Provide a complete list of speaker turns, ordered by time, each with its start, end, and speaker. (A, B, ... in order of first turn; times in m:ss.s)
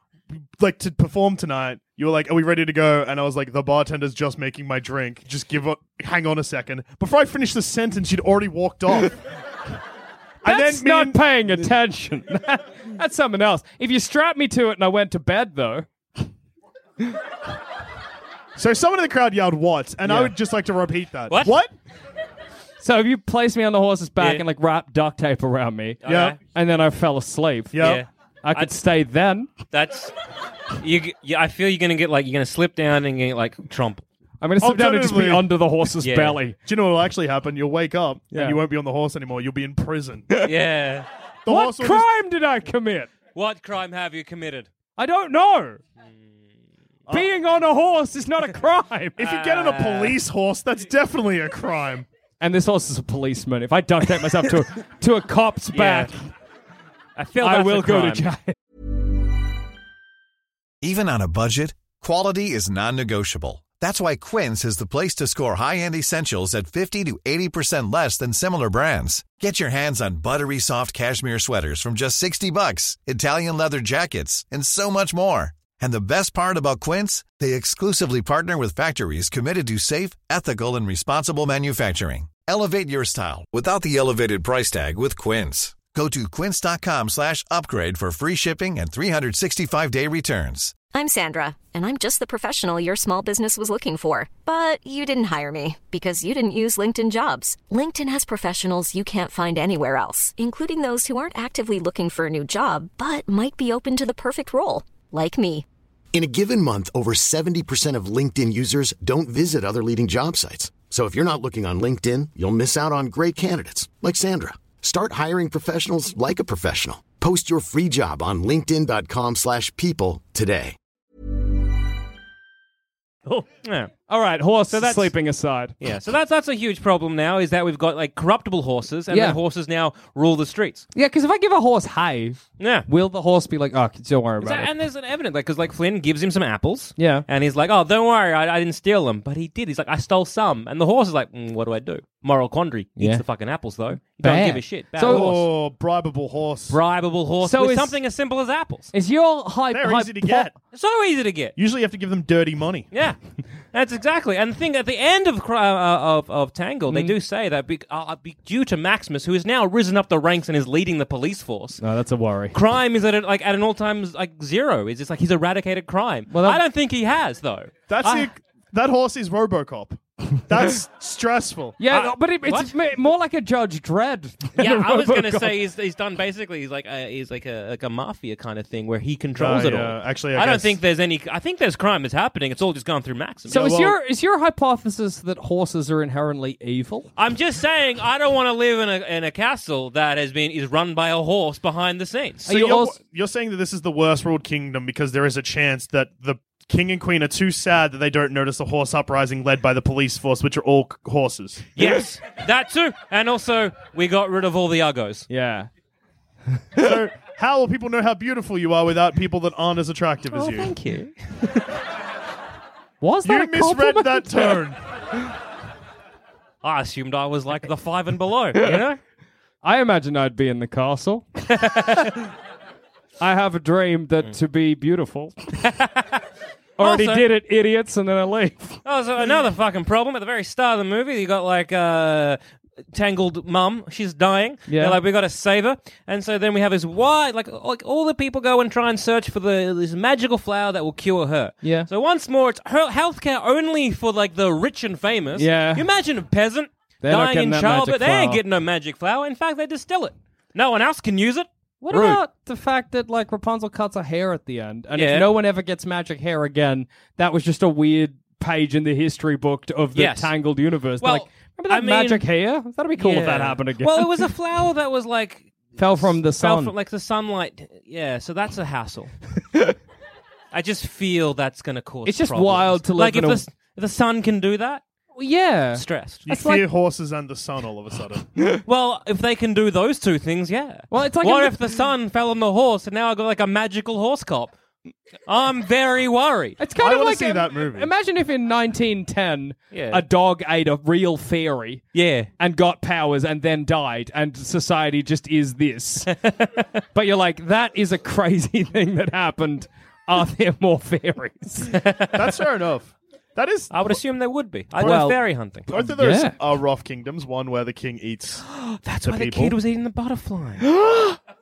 0:00.3-0:09.2 A
0:10.4-0:11.5 A
0:10.4-0:15.9 B
0:18.6-0:21.7 A
0:20.0-0:20.3 B
0:21.3-0:21.6 C
0:22.8-0:27.8 B
0:24.2-0:24.4 C
0:26.0-0:26.4 C
0:26.0-0:26.4 A
0:27.7-0:28.0 A
0:27.8-0:28.7 C
0:28.4-0:29.5 B
0:29.7-0:30.1 C
0:30.7-0:34.0 C
0:34.4-0:36.6 B
0:34.6-0:35.5 A
0:36.0-0:36.4 C
0:36.6-0:40.3 A
0:38.3-0:38.6 B
0:40.4-0:41.1 C
0:41.4-0:42.1 A
0:41.5-0:43.1 B
0:43.3-0:44.7 C
0:45.0-0:45.8 B
0:47.1-0:49.2 B
0:49.2-0:52.0 A
0:49.2-0:50.2 C
0:52.4-0:56.1 B
0:55.7-0:56.1 C
0:57.2-0:58.3 C
0:57.4-0:58.6 B
1:00.8-1:30.8 D
1:30.9-1:45.6 E
1:46.1-2:00.8 F
2:03.6-2:03.9 C
2:04.1-2:05.7 B
2:04.7-2:05.1 C
2:05.8-2:10.8 C
2:09.1-2:09.4 B
2:10.9-2:14.7 B
2:12.6-2:12.8 C
2:14.4-2:25.5 C
2:17.0-2:17.2 B
2:24.2-2:25.3 B
2:25.0-2:26.8 A
2:26.7-2:28.9 C
2:27.4-2:28.0 B
2:28.9-2:30.5 B
2:29.7-2:30.5 A
2:30.7-2:31.5 C
2:31.6-2:32.9 A
2:33.7-2:41.8 C
2:36.9-2:37.1 B
2:41.8-2:42.5 B
2:42.5-2:48.3 C
2:46.3-2:46.6 B
2:47.9-2:51.8 A
2:51.8-2:55.5 B
2:51.9-2:52.7 C
2:54.6-3:03.7 C
2:59.4-3:00.8 A
3:03.5-3:07.1 B
3:03.5-3:04.0 A
3:07.2-3:12.5 C
3:12.5-3:12.9 B
3:12.5-3:21.7 A
3:21.8-3:25.2 C
3:25.3-3:25.7 B
3:26.8-3:30.7 A
3:30.3-3:31.8 C
3:33.0-3:34.5 B
3:33.2-3:34.8 A
3:36.6-3:39.0 C
3:39.6-3:41.3 B
3:41.5-3:42.2 C
3:43.2-3:45.5 B
3:45.6-3:46.2 C
3:46.8-3:48.8 B
3:46.8-3:47.2 C
3:48.8-3:52.4 C
3:52.9-4:12.2 C
3:54.7-3:55.0 B
4:01.6-4:01.9 B
4:05.4-4:05.8 B
4:07.0-4:08.4 B
4:11.8-4:24.2 B
4:14.9-4:15.3 C
4:19.9-4:20.3 C
4:21.0-4:22.2 C
4:23.0-4:29.1 C
4:25.8-4:26.7 B
4:30.5-4:34.8 C
4:32.0-4:33.4 B
4:35.2-4:36.6 B
4:35.8-4:36.2 C
4:36.3-4:38.3 A
4:38.6-4:44.6 C
4:40.9-4:41.6 B
4:45.3-4:46.6 C
4:46.6-4:51.8 B
4:46.8-4:47.9 A
4:49.7-4:50.0 C
4:51.9-4:52.3 C
4:52.4-4:56.1 B
4:56.1-4:56.6 C
4:56.9-5:01.7 B
5:01.7-5:02.3 C
5:02.1-5:03.7 A
5:03.7-5:05.7 C
5:04.8-5:08.4 A
5:05.7-5:06.4 B
5:08.5-5:10.6 C
5:09.0-5:09.6 A
5:10.8-5:11.2 B